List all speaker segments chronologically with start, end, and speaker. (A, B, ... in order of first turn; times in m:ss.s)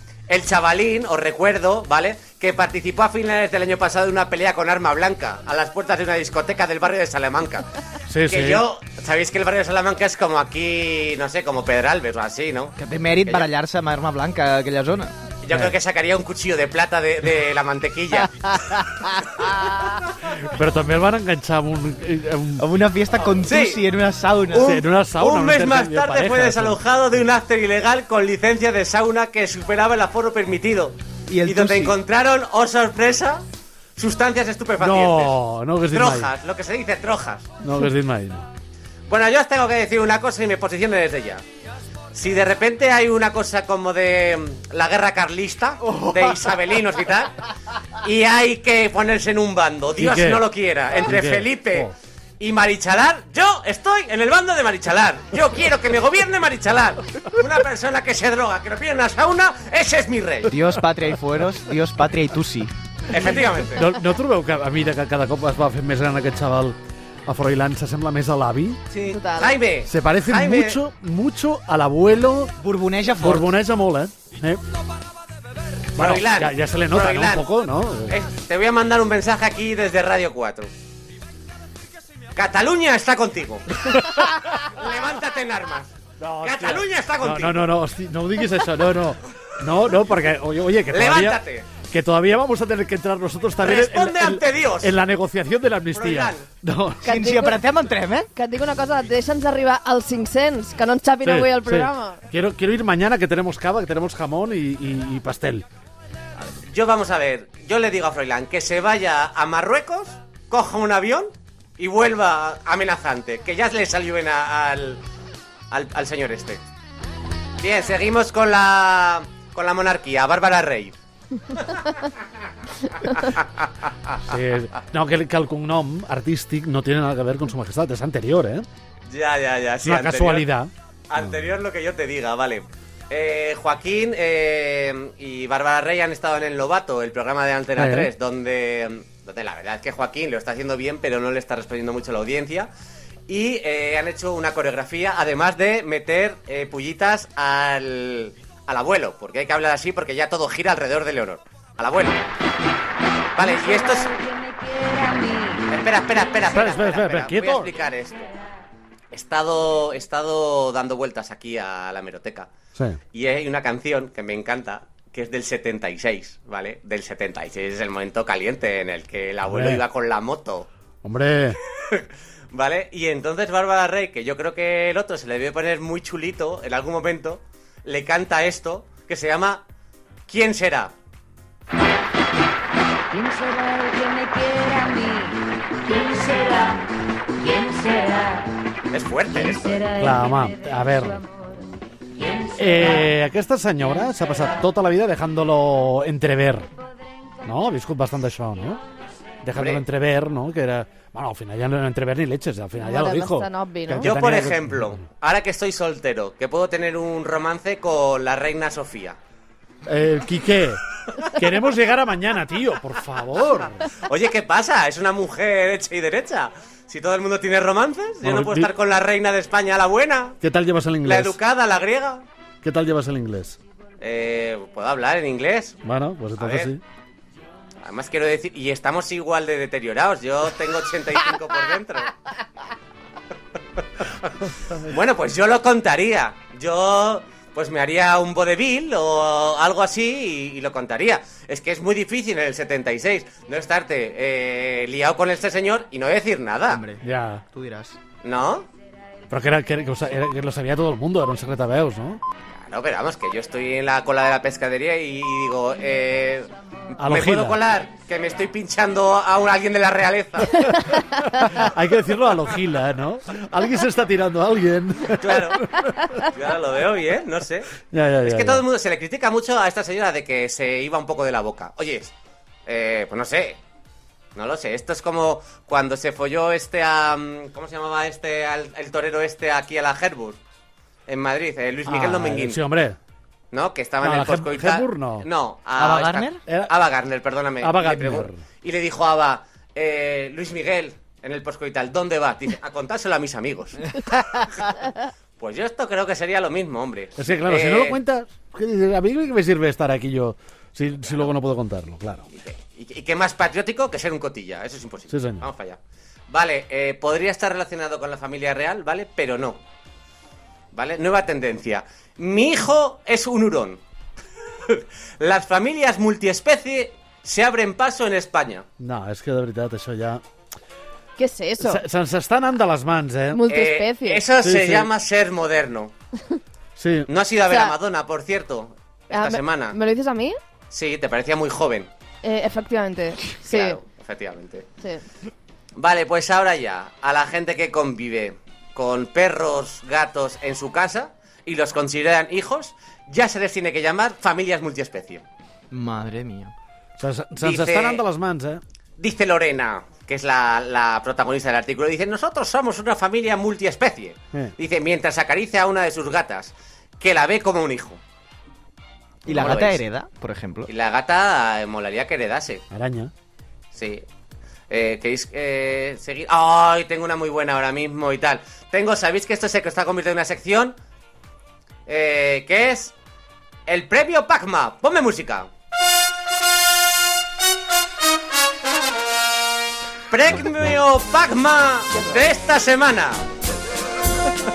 0:00.3-0:07.6 A
0:08.1-0:08.6 B
0:08.2-0:13.5 A
0:12.8-0:15.1 C
0:15.4-0:18.5 A
0:15.5-0:15.7 B
0:19.4-0:19.9 A
0:20.4-0:22.6 B
0:22.6-0:24.8 C
0:23.4-0:23.8 A
0:24.5-0:33.4 A
0:24.6-0:26.8 B
0:31.3-0:32.0 C
0:34.0-0:35.4 A
0:34.8-0:36.3 B
0:35.9-0:37.5 A
0:37.6-0:38.5 B
0:39.1-0:41.4 A
0:42.1-0:47.4 A
0:46.0-0:46.4 C
0:48.0-1:00.5 A
0:50.0-0:50.5 B
0:51.0-0:51.9 B
1:00.5-1:02.7 C
1:03.1-1:03.8 A
1:03.7-1:08.8 B
1:08.9-1:09.2 C
1:09.0-1:09.6 D
1:09.4-1:10.8 A
1:09.8-1:12.5 B
1:12.6-1:13.5 C
1:13.2-1:14.6 B
1:16.0-1:17.4 A
1:16.0-1:18.2 B
1:18.1-1:20.7 A
1:22.3-1:23.7 A
1:23.8-1:24.4 B
1:24.4-1:27.6 A
1:26.2-1:37.1 B
1:30.9-1:31.7 A
1:33.6-1:34.9 A
1:35.9-1:36.4 A
1:37.0-1:37.6 D
1:37.0-1:38.3 C
1:38.3-1:42.2 D
1:41.2-1:45.6 B
1:46.4-1:55.0 A
1:55.7-1:56.6 A
1:57.6-2:01.0 A
2:01.6-2:01.9 A
2:03.0-2:03.4 A
2:04.2-2:08.6 B
2:09.1-2:10.5 A
2:09.8-2:10.7 B
2:11.1-2:22.7 A
2:17.8-2:18.1 B
2:23.3-2:32.2 A
2:33.4-2:34.2 A
2:34.2-2:35.6 E
2:35.7-2:38.3 A
2:36.5-2:37.7 B
2:39.1-2:42.5 A
2:43.1-2:50.7 A
2:49.5-2:49.8 B
2:51.0-2:51.6 B
2:51.9-2:59.6 A
3:00.3-3:00.9 A
3:03.1-3:06.8 E
3:07.4-3:08.5 E
3:08.9-3:09.9 A
3:09.9-3:11.2 B
3:12.5-3:16.7 B
3:17.4-3:18.8 B
3:19.4-3:25.0 B
3:19.5-3:19.8 A
3:22.8-3:24.1 D
3:24.0-3:29.2 A
3:29.9-3:30.8 B
3:31.3-3:33.8 B
3:34.0-3:40.4 A
3:38.2-3:38.7 B
3:40.4-3:41.3 B
3:41.0-3:42.2 A
3:42.6-3:43.6 B
3:44.0-3:45.8 A
3:45.8-3:46.8 B
3:46.4-3:46.7 A
3:47.8-3:52.1 A
3:54.8-4:06.8 A
4:06.7-4:08.0 C
4:07.0-4:07.4 B
4:08.2-4:08.7 A
4:09.3-4:12.2 B
4:12.6-4:20.7 A
4:17.0-4:17.6 B
4:20.6-4:26.2 B
4:25.2-4:25.6 A
4:26.2-4:27.7 A
4:27.9-4:28.6 B
4:28.2-4:32.1 A
4:32.6-4:33.6 A
4:34.4-4:40.4 A
4:41.1-4:42.6 A
4:41.8-4:43.0 B
4:43.5-4:54.0 A
4:44.0-4:45.2 B
4:45.8-4:46.4 C
4:46.5-4:46.7 B
4:47.6-4:48.4 B
4:55.4-4:58.0 A
4:57.2-5:02.2 B
5:02.3-5:05.8 A
5:05.1-5:05.4 B
5:06.3-5:09.6 A
5:10.7-5:13.8 A
5:14.7-5:18.6 A
5:18.8-5:20.2 B
5:21.2-5:21.8 D
5:21.6-5:23.4 B
5:23.3-5:24.2 D
5:23.4-5:25.9 A
5:24.4-5:24.9 B
5:26.8-5:27.1 B
5:27.1-5:29.8 A
5:27.4-5:27.7 D
5:29.1-5:30.4 D
5:30.7-5:31.9 A
5:32.2-5:33.8 D
5:33.4-5:34.6 A
5:35.8-5:45.2 A
5:45.7-5:46.5 C
5:47.0-5:48.6 B
5:47.4-5:48.0 A
5:49.0-5:58.0 A
5:59.2-5:59.8 A
5:59.2-6:00.7 C
5:59.3-5:59.6 B
6:00.7-6:02.6 A
6:02.7-6:03.1 B
6:03.7-6:04.0 A
6:04.7-6:10.7 A
6:11.8-6:12.9 A
6:13.7-6:15.5 A
6:20.1-6:23.2 A